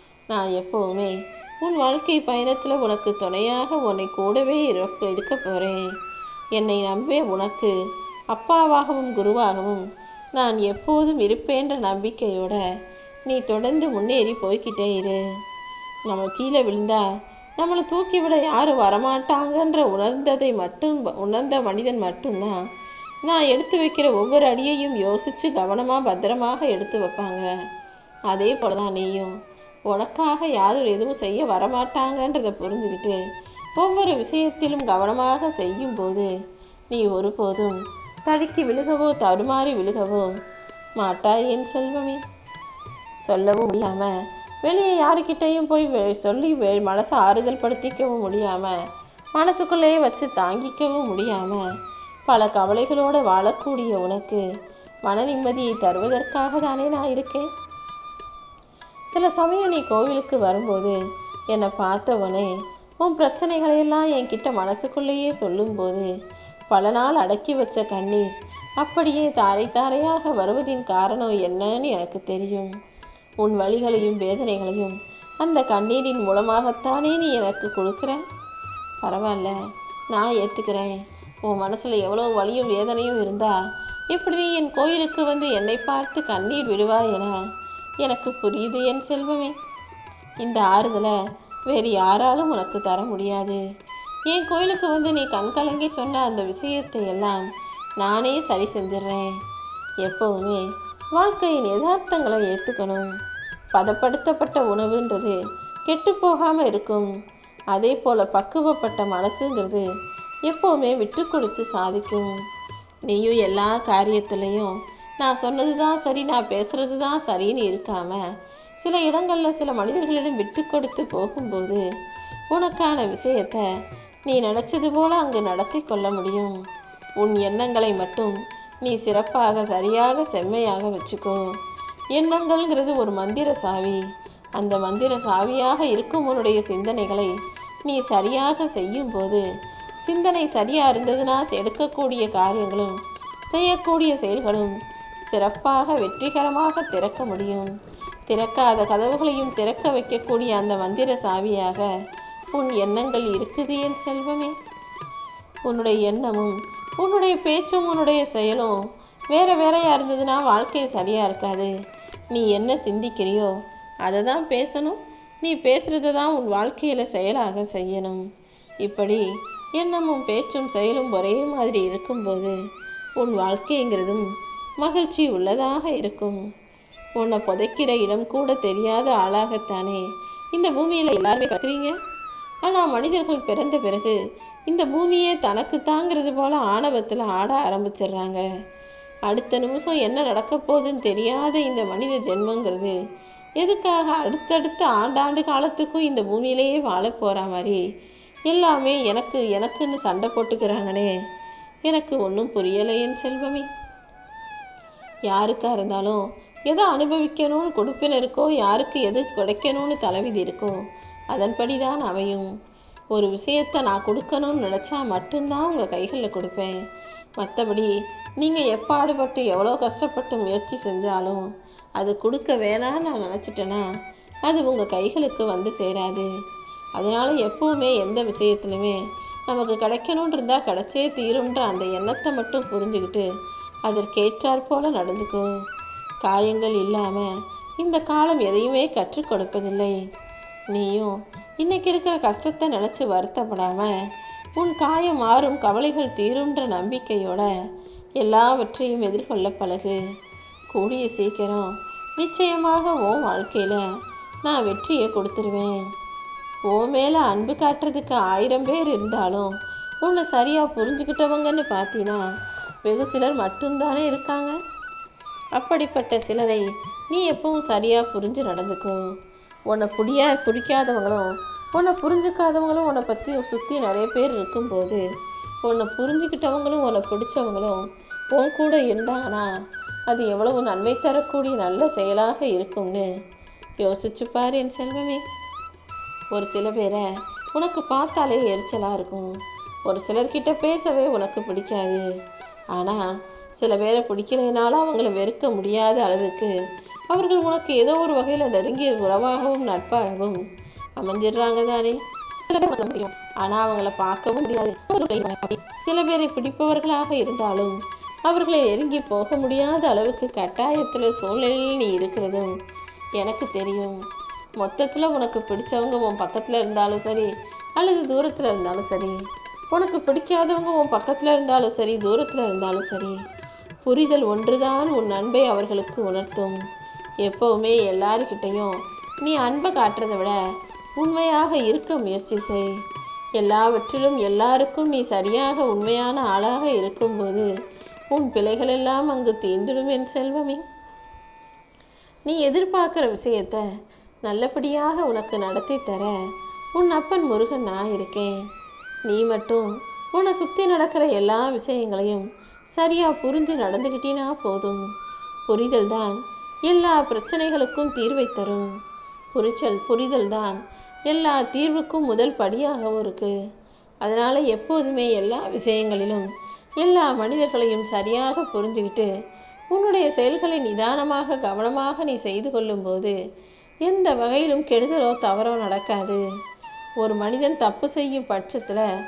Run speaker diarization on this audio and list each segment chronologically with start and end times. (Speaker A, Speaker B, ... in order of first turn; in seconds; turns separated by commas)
Speaker A: 0.3-5.8, Speaker A: 6.5-7.7, Speaker A: 8.3-9.8, Speaker A: 10.3-12.6, Speaker A: 13.2-15.2, Speaker A: 16.1-17.0, Speaker A: 17.6-22.6, Speaker A: 23.2-27.5, Speaker A: 28.3-29.3, Speaker A: 29.9-33.2, Speaker A: 33.8-36.3, Speaker A: 36.9-40.3, Speaker A: 41.0-42.2, Speaker A: 43.2-44.1, Speaker A: 44.6-48.7, Speaker A: 49.3-51.6, Speaker A: 52.3-54.4, Speaker A: 55.0-57.5, Speaker A: 59.1-60.9, Speaker A: 61.5-62.5, Speaker A: 63.0-66.1, Speaker A: 66.7-68.3, Speaker A: 68.8-72.7, Speaker A: 73.4-78.2, Speaker A: 79.0-79.5, Speaker A: 80.1-80.9, Speaker A: 81.4-83.5, Speaker A: 84.1-87.3, Speaker A: 88.0-89.5, Speaker A: 90.4-91.2, Speaker A: 91.7-93.6, Speaker A: 94.3-97.4, Speaker A: 98.0-99.3, Speaker A: 100.0-100.6, Speaker A: 101.2-103.1, Speaker A: 103.7-105.3, Speaker A: 105.9-107.1, Speaker A: 107.7-109.8, Speaker A: 110.5-112.3, Speaker A: 113.1-118.2, Speaker A: 118.8-121.8, Speaker A: 122.5-123.6, Speaker A: 124.2-126.5, Speaker A: 127.2-131.4, Speaker A: 132.1-134.0, Speaker A: 134.6-137.3, Speaker A: 137.8-139.4, Speaker A: 140.0-142.9, Speaker A: 143.5-144.7, Speaker A: 145.3-147.7, Speaker A: 148.3-151.9, Speaker A: 152.5-154.5, Speaker A: 155.7-158.8, Speaker A: 159.3-161.7, Speaker A: 162.3-163.5, Speaker A: 164.0-168.2, Speaker A: 168.8-169.2, Speaker A: 169.8-172.5, Speaker A: 173.2-174.3, Speaker A: 174.8-176.4, Speaker A: 177.2-180.0, Speaker A: 180.5-181.9, Speaker A: 182.6-184.2, Speaker A: 184.7-188.4, Speaker A: 189.3-192.9, Speaker A: 193.6-197.8, Speaker A: 198.5-201.1, Speaker A: 201.9-203.7, Speaker A: 205.3-210.8, Speaker A: 211.3-212.5, Speaker A: 213.1-216.8, Speaker A: 217.4-217.9, Speaker A: 218.4-221.4, Speaker A: 222.0-223.8, Speaker A: 224.5-226.3, Speaker A: 227.0-233.2, Speaker A: 233.9-235.5, Speaker A: 236.2-237.3, Speaker A: 237.8-239.9, Speaker A: 240.7-243.9, Speaker A: 244.6-247.5, Speaker A: 248.2-250.0, Speaker A: 250.7-253.8, Speaker A: 254.4-255.8, Speaker A: 256.7-259.5, Speaker A: 260.0-262.2, Speaker A: 262.9-264.5, Speaker A: 265.6-269.0, Speaker A: 269.7-275.0, Speaker A: 275.6-279.5, Speaker A: 280.1-283.1, Speaker A: 283.8-285.2, Speaker A: 286.3-287.0, Speaker A: 287.6-289.3, Speaker A: 289.9-292.0, Speaker A: 292.7-293.0, Speaker A: 293.6-296.5, Speaker A: 297.1-300.4, Speaker A: 301.0-307.8, Speaker A: 308.3-312.5, Speaker A: 313.2-314.0, Speaker A: 314.6-319.2, Speaker A: 319.7-323.2, Speaker A: 323.8-326.5, Speaker A: 327.2-330.4, Speaker A: 331.0-332.7, Speaker A: 333.4-337.5, Speaker A: 338.1-340.6, Speaker A: 342.3-343.6, Speaker A: 344.2-346.1, Speaker A: 346.8-348.3, Speaker A: 349.1-354.8, Speaker A: 355.5-356.1, Speaker A: 356.7-358.7, Speaker A: 359.3-363.3, Speaker A: 364.0-366.3, Speaker A: 366.8-369.1, Speaker A: 369.7-373.1, Speaker A: 373.9-376.2, Speaker A: 377.0-378.8